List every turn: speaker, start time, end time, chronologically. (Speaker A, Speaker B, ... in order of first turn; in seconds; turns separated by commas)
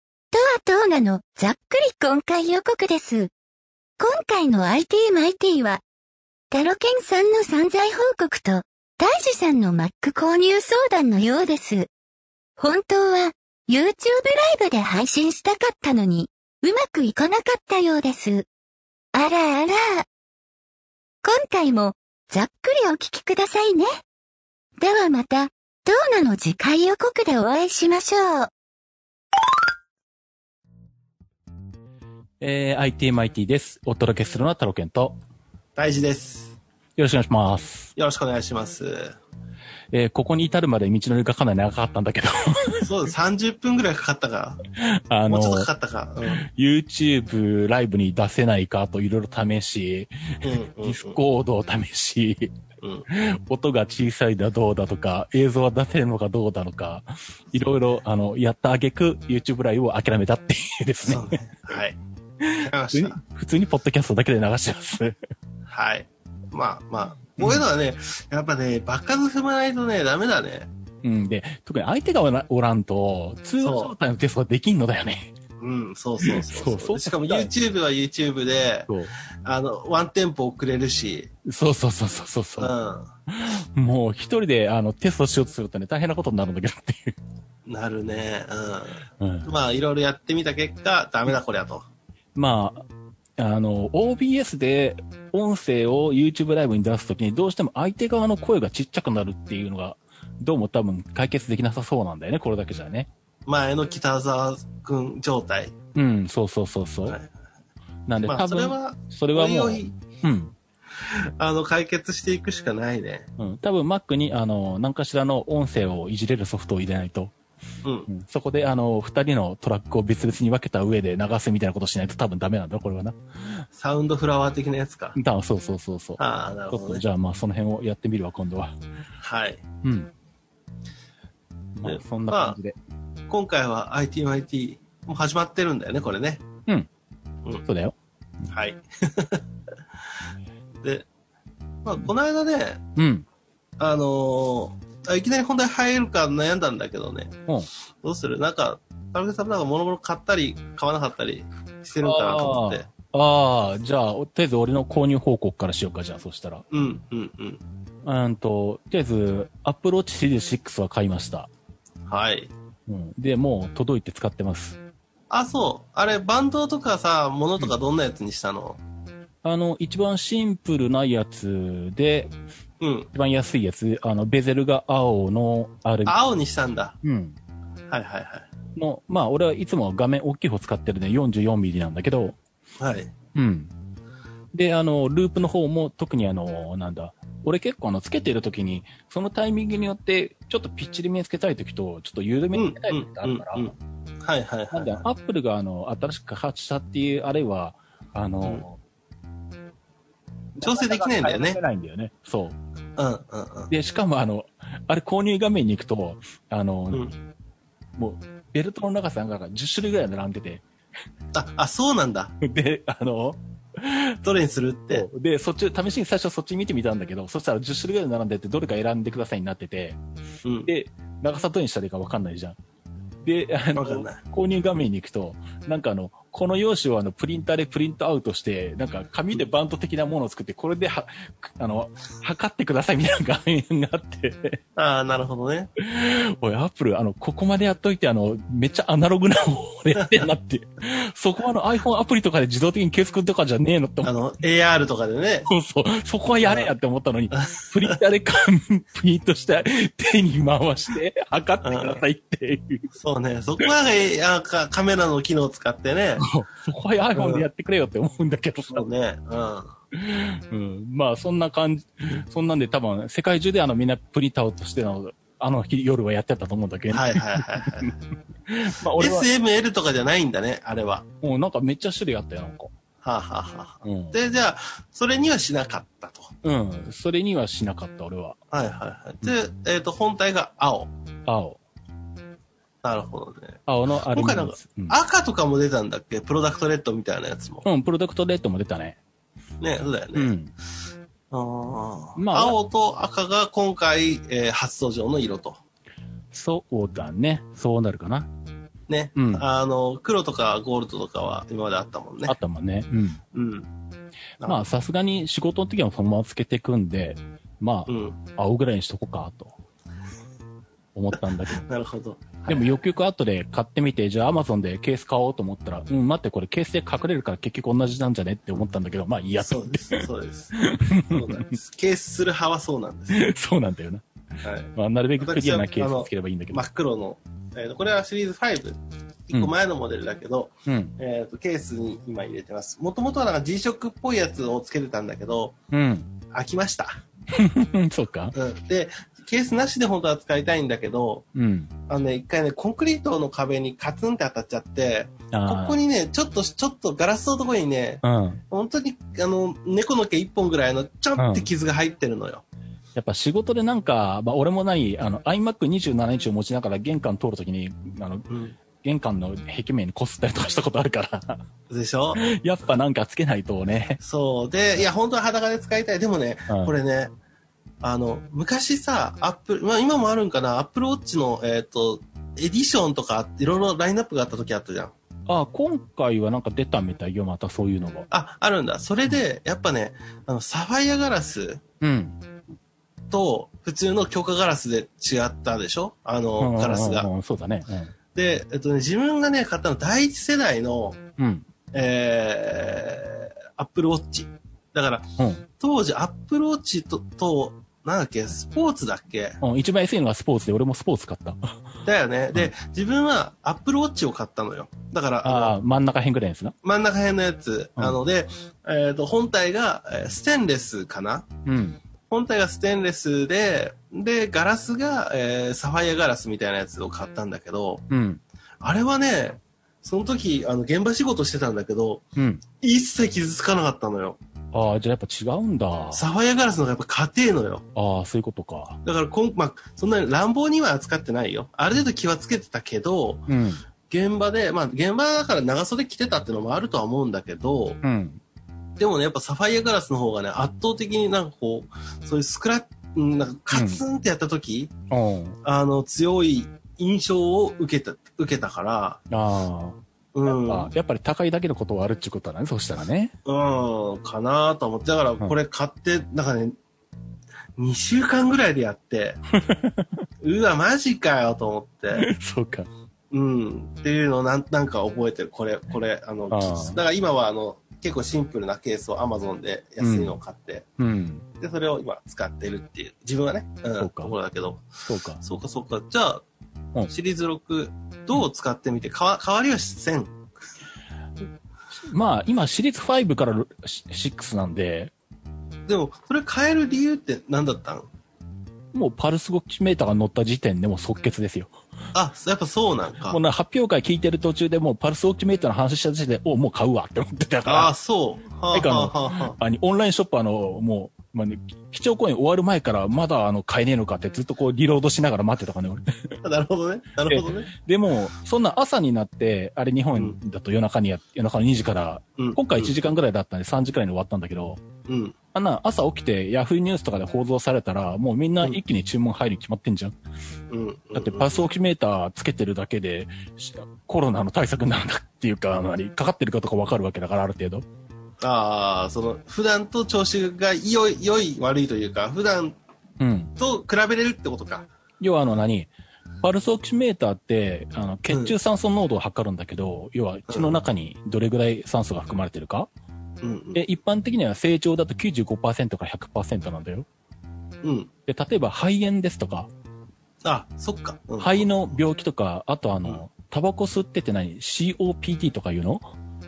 Speaker A: 0.3-3.3, Speaker A: 4.0-5.8, Speaker A: 6.5-11.9, Speaker A: 12.6-18.5, Speaker A: 19.1-20.1, Speaker A: 21.2-24.0, Speaker A: 24.8-28.5, Speaker B: 32.4-35.2, Speaker C: 35.8-36.6, Speaker B: 37.0-37.9, Speaker C: 38.0-39.2, Speaker B: 39.9-42.9, Speaker C: 42.8-44.6, Speaker B: 44.8-45.7, Speaker C: 45.3-46.4, Speaker B: 46.3-52.6, Speaker C: 50.4-51.2, Speaker C: 52.8-53.1, Speaker B: 53.1-61.2, Speaker C: 61.0-62.0, Speaker B: 62.4-65.2, Speaker C: 62.6-63.2, Speaker C: 65.7-70.7, Speaker B: 71.0-75.3, Speaker C: 73.6-73.9, Speaker C: 75.6-78.9, Speaker B: 76.2-77.5, Speaker C: 79.4-81.3, Speaker B: 81.5-82.7, Speaker C: 82.6-83.1, Speaker B: 83.3-87.2, Speaker C: 87.7-91.9, Speaker B: 89.2-89.5, Speaker B: 92.4-92.9, Speaker B: 93.4-103.1, Speaker C: 103.5-105.7, Speaker B: 106.0-107.2, Speaker B: 108.1-110.5, Speaker C: 108.2-110.0, Speaker C: 111.0-113.3, Speaker B: 113.4-117.3, Speaker B: 118.1-123.7, Speaker C: 123.7-125.2, Speaker B: 125.2-128.8, Speaker C: 126.2-127.0, Speaker C: 129.2-129.6, Speaker B: 129.8-130.1, Speaker B: 131.8-132.8, Speaker C: 131.8-132.6, Speaker C: 133.3-136.4, Speaker B: 137.7-138.0, Speaker C: 138.5-139.4, Speaker C: 141.8-142.8, Speaker B: 143.0-143.3, Speaker C: 143.8-147.3, Speaker C: 148.0-152.9, Speaker B: 152.0-156.6, Speaker C: 156.7-157.6, Speaker B: 158.1-161.5, Speaker C: 162.1-162.5, Speaker B: 162.9-164.8, Speaker C: 165.3-168.8, Speaker B: 169.4-172.3, Speaker C: 172.8-173.1, Speaker B: 173.1-176.2, Speaker C: 176.1-177.0, Speaker B: 177.0-177.4, Speaker C: 177.9-178.5, Speaker B: 178.8-182.4, Speaker C: 182.8-183.1, Speaker B: 183.3-183.7, Speaker B: 184.5-193.7, Speaker C: 192.5-195.1, Speaker B: 194.7-198.8, Speaker B: 200.6-202.6, Speaker C: 200.6-201.6, Speaker C: 203.0-203.7, Speaker B: 203.7-207.1, Speaker B: 208.0-210.6, Speaker C: 211.3-212.3, Speaker B: 212.4-214.1, Speaker C: 214.2-215.1, Speaker B: 214.9-220.0, Speaker C: 220.4-220.7, Speaker B: 220.7-222.6, Speaker B: 223.2-234.6, Speaker C: 223.8-224.2, Speaker C: 234.8-235.7, Speaker B: 235.8-244.1, Speaker C: 244.0-245.5, Speaker B: 245.5-252.9, Speaker C: 246.4-246.7, Speaker C: 247.3-248.0, Speaker C: 251.6-252.0, Speaker C: 252.9-256.3, Speaker B: 256.2-258.9, Speaker C: 257.1-257.5, Speaker C: 258.7-259.8, Speaker B: 259.9-267.9, Speaker C: 266.9-267.9, Speaker B: 268.5-269.3, Speaker C: 269.0-271.1, Speaker B: 271.2-272.7, Speaker C: 273.0-276.3, Speaker B: 273.8-274.2, Speaker B: 276.4-278.4, Speaker C: 278.5-280.9, Speaker B: 281.3-281.6, Speaker C: 282.8-287.7, Speaker B: 283.7-285.0, Speaker B: 287.6-289.0, Speaker C: 289.6-290.3, Speaker B: 290.1-290.5, Speaker C: 291.3-295.6, Speaker B: 292.2-292.6, Speaker B: 296.3-298.3, Speaker C: 298.9-302.4, Speaker B: 299.2-299.4, Speaker B: 302.3-303.2, Speaker C: 303.3-303.7, Speaker B: 304.4-309.5, Speaker C: 307.9-308.2, Speaker B: 310.9-311.6, Speaker C: 311.2-312.8, Speaker B: 312.5-321.6, Speaker C: 319.4-323.3, Speaker B: 323.1-324.0, Speaker C: 324.4-328.8, Speaker B: 324.8-326.6, Speaker C: 329.3-335.6, Speaker B: 330.7-330.9, Speaker B: 335.7-336.1, Speaker C: 336.3-337.0, Speaker B: 337.3-338.4, Speaker C: 338.4-341.3, Speaker B: 341.4-341.7, Speaker C: 341.9-352.4, Speaker B: 345.3-345.8, Speaker B: 348.0-348.4, Speaker B: 351.2-351.5, Speaker B: 352.9-358.3, Speaker C: 358.3-358.6, Speaker B: 358.8-361.4, Speaker C: 361.7-362.2, Speaker B: 362.1-364.0, Speaker C: 364.0-367.1, Speaker C: 367.8-374.9, Speaker B: 375.3-378.1, Speaker C: 378.1-381.6, Speaker B: 381.8-382.2, Speaker C: 383.1-387.1, Speaker B: 386.4-387.9, Speaker C: 388.1-391.0, Speaker B: 391.2-391.5, Speaker C: 391.7-395.1, Speaker B: 395.2-395.4, Speaker C: 395.6-399.4, Speaker B: 399.4-401.6, Speaker C: 401.9-405.5, Speaker B: 405.2-406.6, Speaker C: 406.6-411.3, Speaker B: 411.5-411.8, Speaker C: 412.1-417.9, Speaker B: 417.9-418.2, Speaker C: 418.6-422.1, Speaker B: 422.2-422.4, Speaker C: 422.6-424.2, Speaker B: 424.5-426.0, Speaker C: 425.9-427.7, Speaker B: 427.8-428.8, Speaker C: 428.8-433.3, Speaker B: 433.3-433.6, Speaker C: 433.9-437.8, Speaker B: 437.8-438.2, Speaker C: 438.8-444.7, Speaker B: 443.5-443.8, Speaker B: 444.9-445.4, Speaker C: 445.4-449.0, Speaker B: 449.1-453.1, Speaker C: 450.1-450.7, Speaker C: 453.2-456.6, Speaker C: 457.6-459.2, Speaker B: 459.4-459.9, Speaker C: 460.2-462.1, Speaker B: 462.0-462.7, Speaker C: 463.1-470.7, Speaker B: 466.3-466.8, Speaker B: 469.8-470.2, Speaker B: 470.8-471.3, Speaker C: 471.4-476.2, Speaker B: 473.8-474.1, Speaker B: 474.9-475.2, Speaker C: 476.9-480.2, Speaker B: 481.8-484.9, Speaker C: 485.7-487.9, Speaker B: 488.7-491.5, Speaker C: 491.9-493.2, Speaker B: 493.1-497.7, Speaker C: 497.5-499.4, Speaker B: 498.5-506.2, Speaker C: 506.2-507.5, Speaker B: 507.1-514.6, Speaker C: 512.2-512.8, Speaker C: 514.9-515.1, Speaker B: 515.3-520.0, Speaker C: 520.5-521.5, Speaker B: 520.9-527.6, Speaker C: 528.2-532.6, Speaker B: 533.0-533.3, Speaker C: 533.4-534.7, Speaker B: 535.0-535.7, Speaker B: 536.2-542.7, Speaker C: 538.1-538.3, Speaker C: 540.3-540.6, Speaker C: 543.2-543.6, Speaker B: 543.5-546.9, Speaker C: 547.6-547.9, Speaker B: 548.1-549.5, Speaker C: 550.2-551.6, Speaker B: 551.2-555.9